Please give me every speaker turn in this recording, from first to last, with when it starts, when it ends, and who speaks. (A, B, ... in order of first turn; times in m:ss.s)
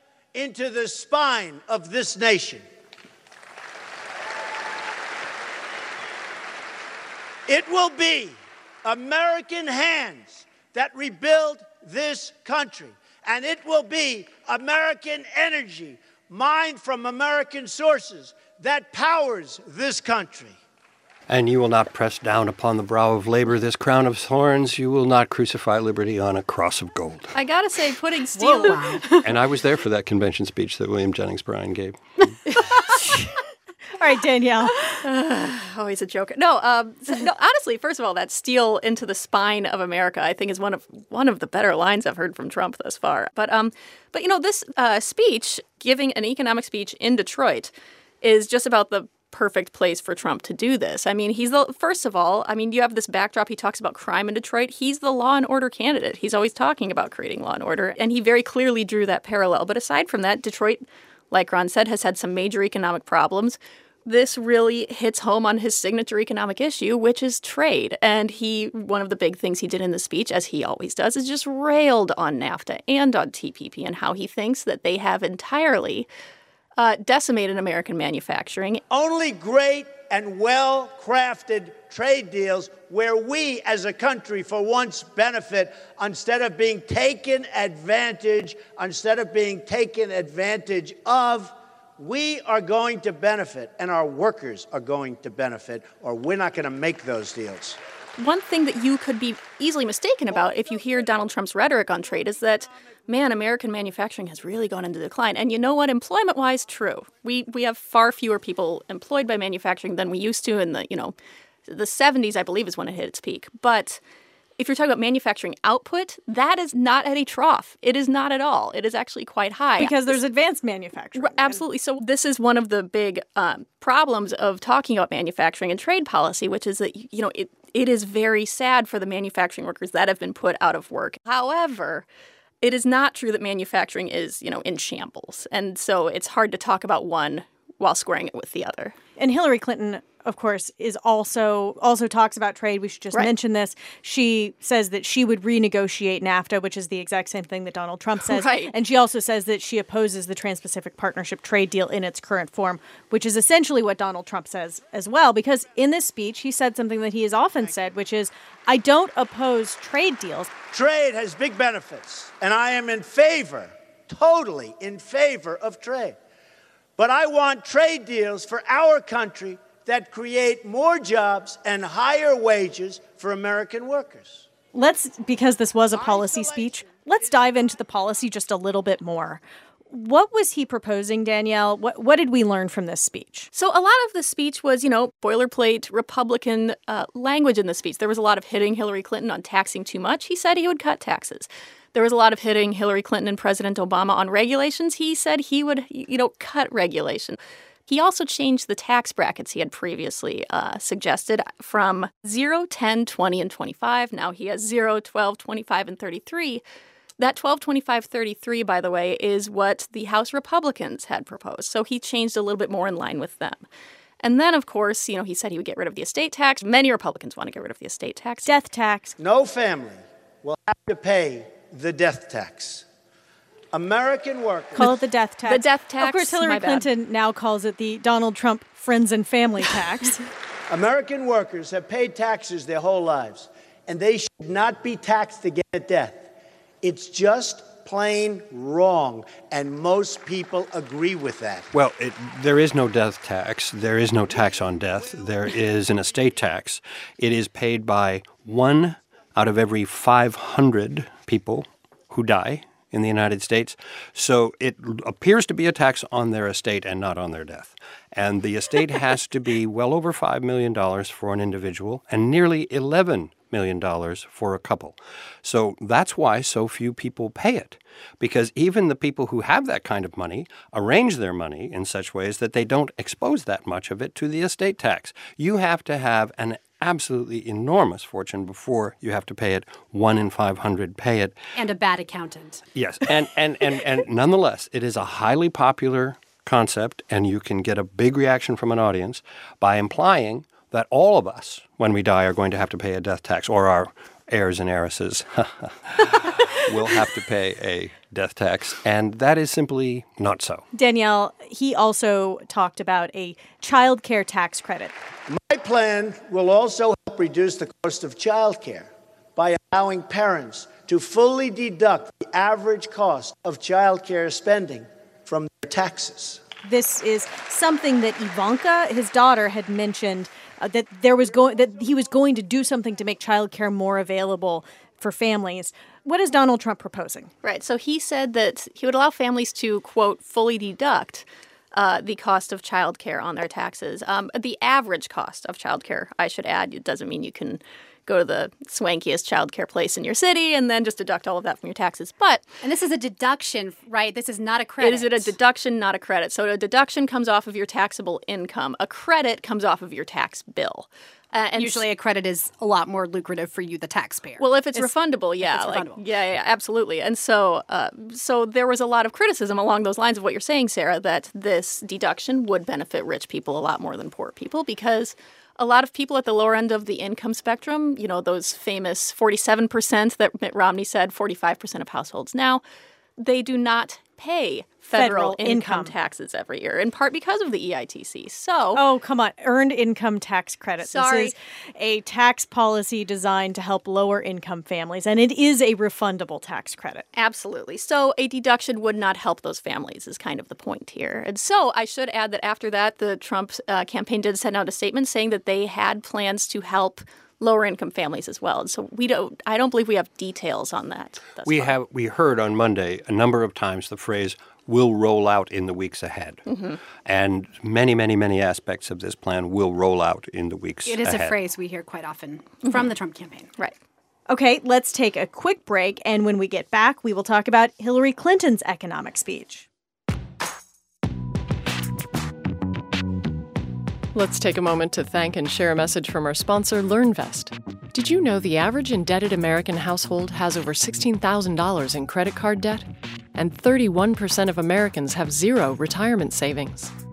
0:00.3-0:02.6 A
0:07.5-0:20.6 A
0:21.3-0:27.3 B
0:27.3-0:29.0 C
0:28.4-0:29.3 D
0:29.2-0:32.0 B
0:33.0-0:33.3 E
0:34.0-0:35.0 E
0:35.0-1:16.1 C
1:16.8-1:18.8 C
1:18.9-1:37.8 A
1:38.2-1:51.2 C
1:51.7-1:54.0 C
1:54.6-2:00.2 C
1:59.8-2:01.6 E
2:01.2-2:12.0 C
2:12.6-2:19.0 C
2:19.2-2:40.5 E
2:28.3-2:28.7 C
2:37.6-2:37.9 A
2:40.7-2:46.2 A
2:47.0-2:54.5 A
2:54.7-3:03.5 E
2:55.9-2:56.9 A
3:03.5-3:17.4 C
3:17.9-3:26.6 C
3:27.2-3:33.6 C
3:34.2-3:38.5 C
3:38.5-3:39.2 E
3:39.2-3:42.8 A
3:43.7-3:44.9 A
3:44.8-3:50.3 E
3:45.5-3:46.8 C
3:50.7-3:56.3 A
3:56.8-4:01.7 A
4:01.7-4:41.4 B
4:41.6-4:42.6 D
4:42.8-5:00.6 B
5:00.7-5:04.9 E
5:05.3-5:16.4 A
5:16.6-5:27.3 E
5:27.4-5:42.4 C
5:42.6-5:45.3 D
5:44.8-5:51.8 C
5:51.5-5:56.0 D
5:54.4-6:12.6 C
6:13.2-6:18.8 C
6:14.9-6:15.9 E
6:18.8-6:27.1 E
6:20.8-6:21.3 C
6:27.2-6:41.8 C
6:41.4-6:46.4 B
6:46.5-6:46.8 C
6:47.0-6:51.4 B
6:50.9-6:53.5 D
6:54.3-6:59.7 E
7:04.1-7:16.9 F